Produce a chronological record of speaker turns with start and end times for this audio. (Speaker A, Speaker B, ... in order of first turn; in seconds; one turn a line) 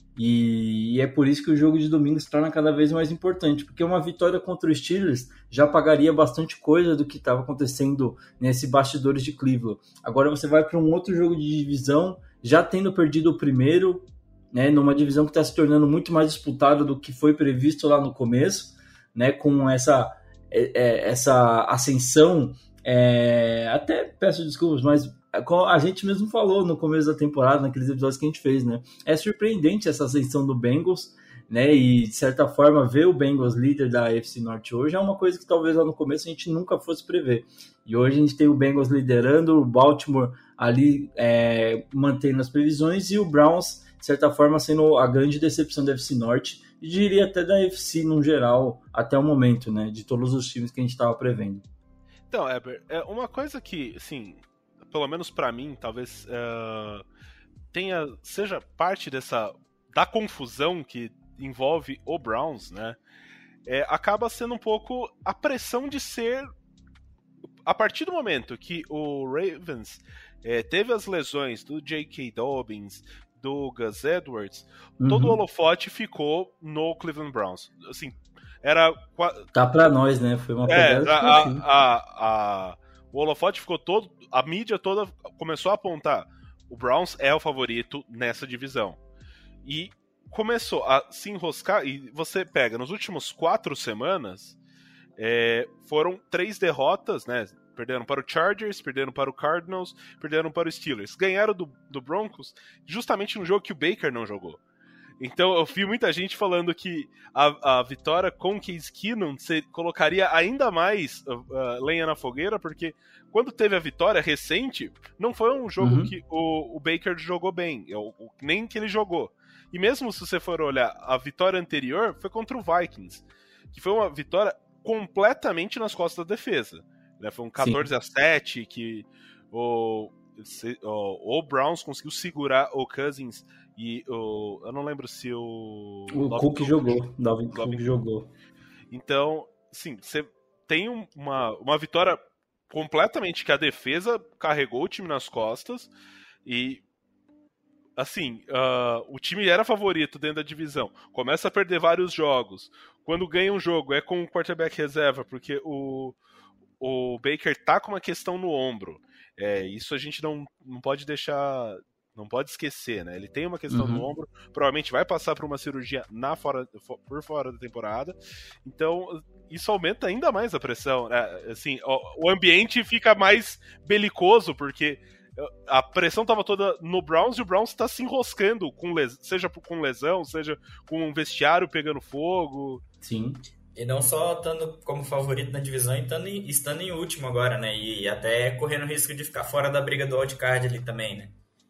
Speaker A: 0.2-51.6
Speaker B: 52.3-57.0
Speaker B: 57.7-63.0
Speaker B: 63.7-66.5
Speaker B: 67.7-79.5
Speaker A: 75.0-75.4
Speaker A: 79.5-81.6
Speaker B: 80.6-89.0
Speaker B: 89.6-94.6
Speaker B: 95.2-104.6
Speaker B: 105.2-138.0
Speaker A: 115.8-116.1
Speaker A: 127.6-127.8
Speaker A: 136.1-138.3
Speaker B: 138.9-145.9
Speaker B: 146.4-146.8
Speaker B: 148.0-156.2
Speaker B: 156.8-182.8
Speaker A: 163.7-164.1
Speaker A: 183.0-183.4
Speaker C: 183.8-191.3